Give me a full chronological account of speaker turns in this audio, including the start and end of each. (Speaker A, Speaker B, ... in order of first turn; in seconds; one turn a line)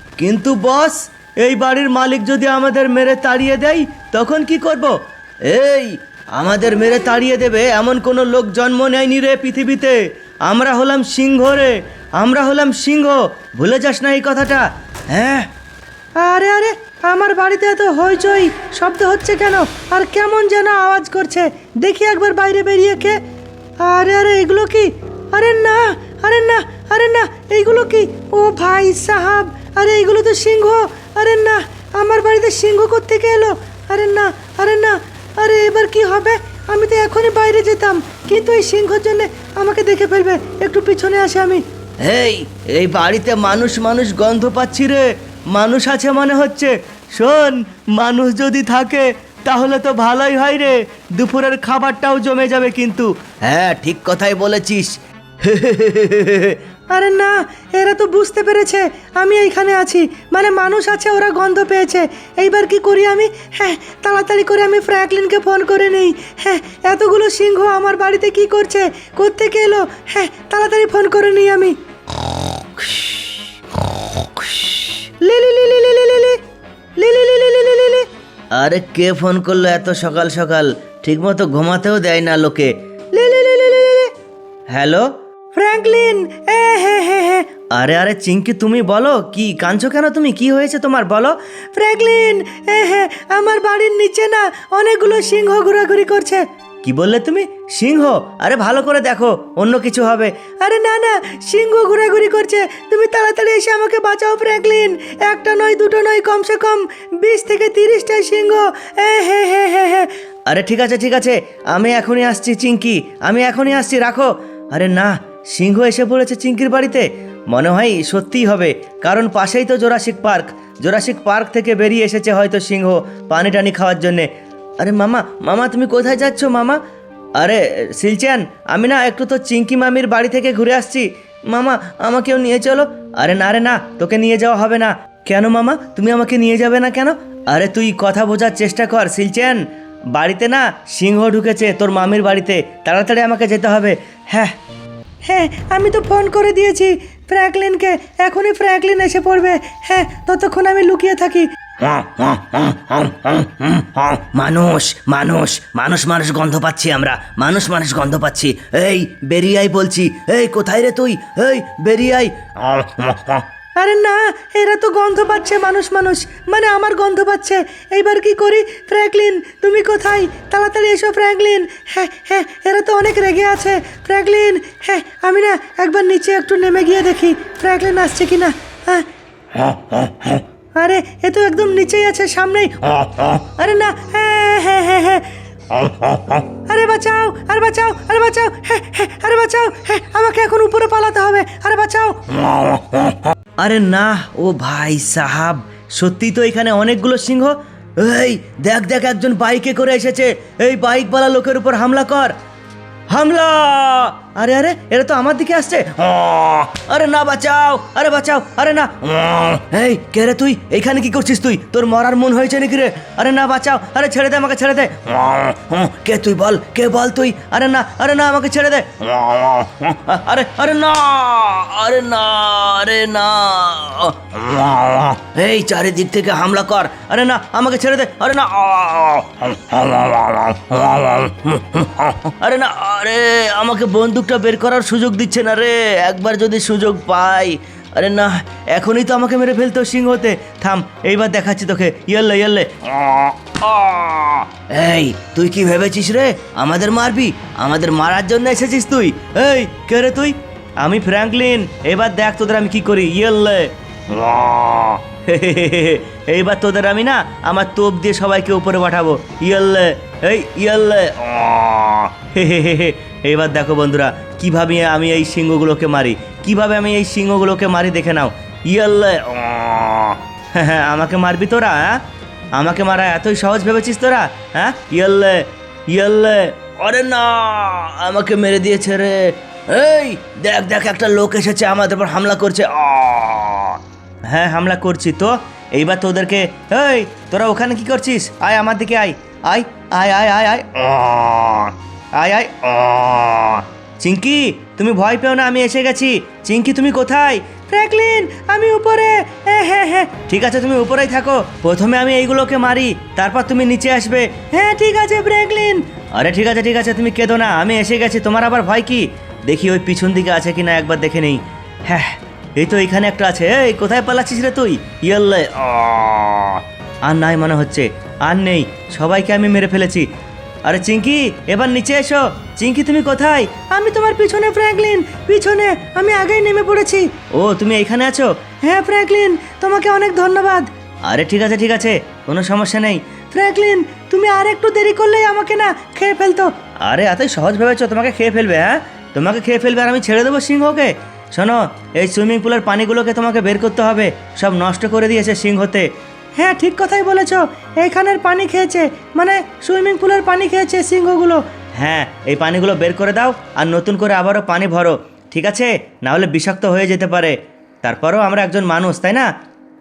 Speaker A: 0.2-15.5
Speaker B: 16.2-23.2
Speaker B: 23.8-41.6
Speaker A: 42.0-56.6
Speaker B: 56.9-71.7
Speaker B: 75.2-76.4
Speaker B: 77.0-78.1
Speaker A: 78.5-82.7
Speaker B: 83.1-84.1
Speaker A: 84.7-85.1
Speaker B: 85.5-87.5
Speaker A: 87.7-91.3
Speaker B: 91.8-96.4
Speaker A: 96.8-100.3
Speaker B: 100.6-110.1
Speaker A: 110.5-126.8
Speaker A: 127.4-144.5
Speaker B: 145.3-151.5
Speaker A: 151.8-163.4
Speaker B: 163.8-179.1
Speaker A: 179.6-180.4
Speaker B: 180.8-185.3
Speaker A: 185.7-186.4
Speaker B: 186.7-192.2
Speaker A: 192.3-202.3
Speaker A: 203.1-272.0
Speaker A: 272.5-297.6
Speaker B: 297.7-300.1
Speaker A: 300.1-304.6
Speaker B: 304.6-305.8
Speaker A: 306.1-320.1
Speaker A: 320.6-323.6
Speaker B: 323.7-327.1
Speaker A: 327.3-328.3
Speaker B: 328.6-330.7
Speaker A: 331.1-333.1
Speaker B: 333.3-336.5
Speaker A: 336.8-345.9
Speaker B: 346.4-351.4
Speaker A: 351.8-359.3